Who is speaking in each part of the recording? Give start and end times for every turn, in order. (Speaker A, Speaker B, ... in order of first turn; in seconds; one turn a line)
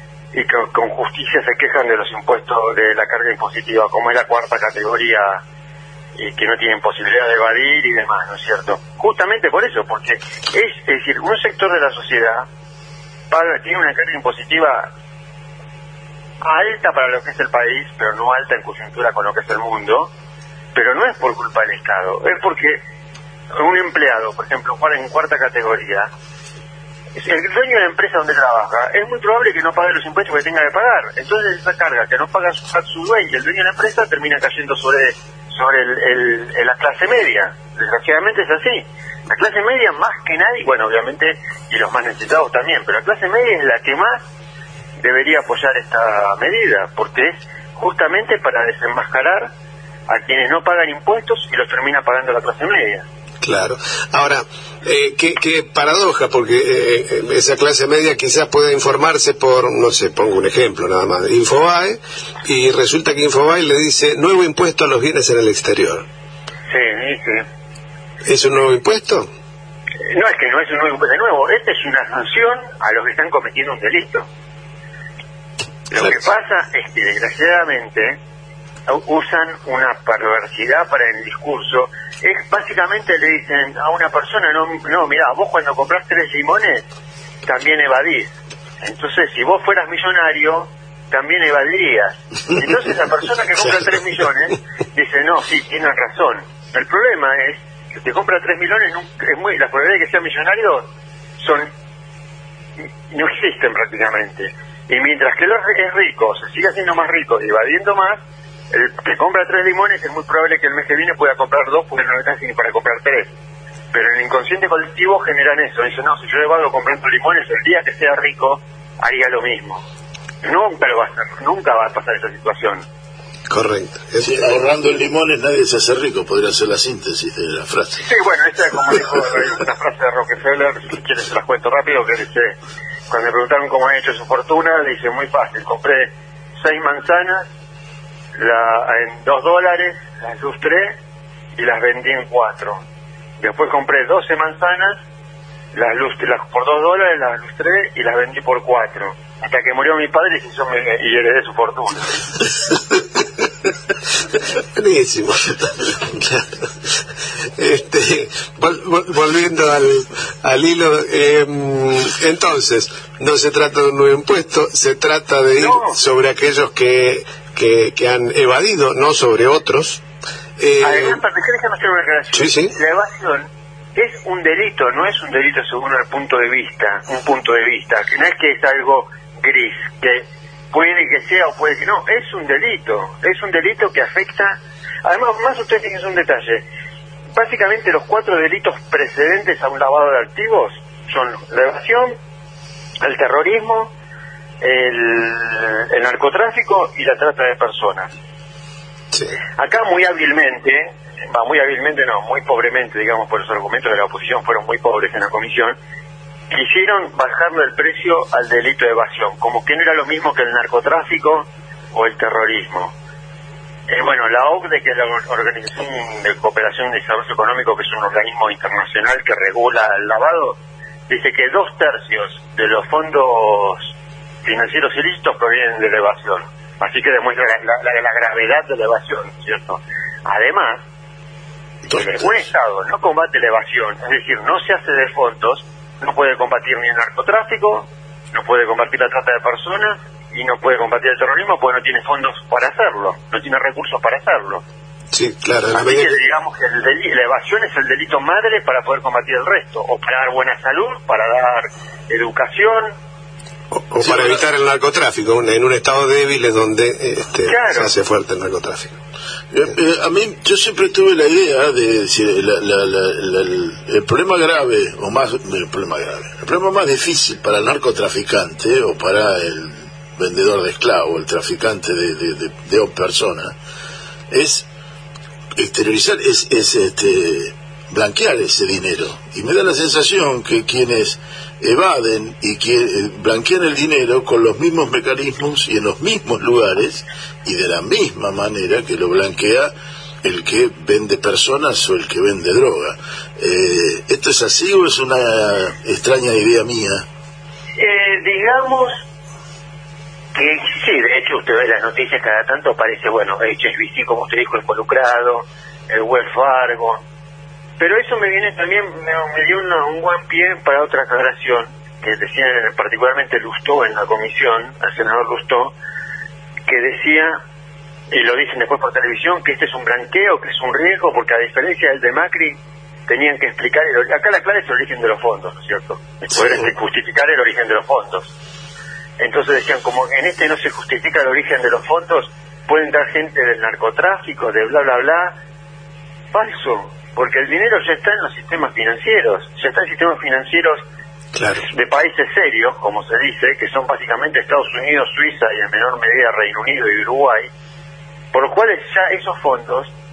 Speaker A: 0.3-5.4
Speaker A: 6.2-12.5
Speaker A: 13.3-14.9
Speaker A: 16.4-20.1
Speaker A: 20.7-22.8
Speaker A: 23.5-26.1
Speaker A: 27.2-44.2
Speaker A: 45.0-49.5
Speaker A: 50.1-53.0
Speaker B: 53.4-66.1
Speaker A: 66.7-67.5
Speaker B: 68.3-69.3
Speaker A: 70.0-74.3
Speaker A: 75.9-78.2
Speaker A: 78.9-86.8
Speaker A: 87.5-100.9
Speaker A: 101.4-101.7
Speaker A: 103.1-113.3
Speaker A: 113.9-119.8
Speaker A: 120.4-122.8
Speaker B: 123.5-124.6
Speaker C: 124.2-128.1
Speaker A: 128.0-132.6
Speaker A: 133.1-137.5
Speaker A: 138.4-141.0
Speaker A: 141.6-142.8
Speaker A: 143.4-145.0
Speaker A: 145.7-152.2
Speaker B: 154.7-156.5
Speaker B: 157.6-170.0
Speaker A: 165.6-166.0
Speaker B: 170.6-171.2
Speaker A: 170.8-186.7
Speaker B: 172.3-172.8
Speaker A: 187.3-192.2
Speaker A: 193.0-193.9
Speaker A: 194.6-198.1
Speaker A: 199.6-205.8
Speaker A: 206.5-212.9
Speaker A: 213.9-230.8
Speaker C: 231.9-232.4
Speaker A: 231.9-244.6
Speaker B: 245.1-246.2
Speaker A: 245.7-252.9
Speaker B: 253.7-259.0
Speaker A: 257.5-257.9
Speaker C: 259.5-273.6
Speaker C: 274.3-274.7
Speaker C: 275.6-289.7
Speaker C: 290.2-297.0
Speaker A: 297.8-299.0
Speaker A: 300.4-307.0
Speaker A: 307.8-315.8
Speaker A: 316.7-317.4
Speaker A: 318.1-328.3
Speaker A: 329.2-335.4
Speaker A: 336.3-340.8
Speaker B: 341.4-341.7
Speaker A: 341.6-347.5
Speaker A: 348.3-349.9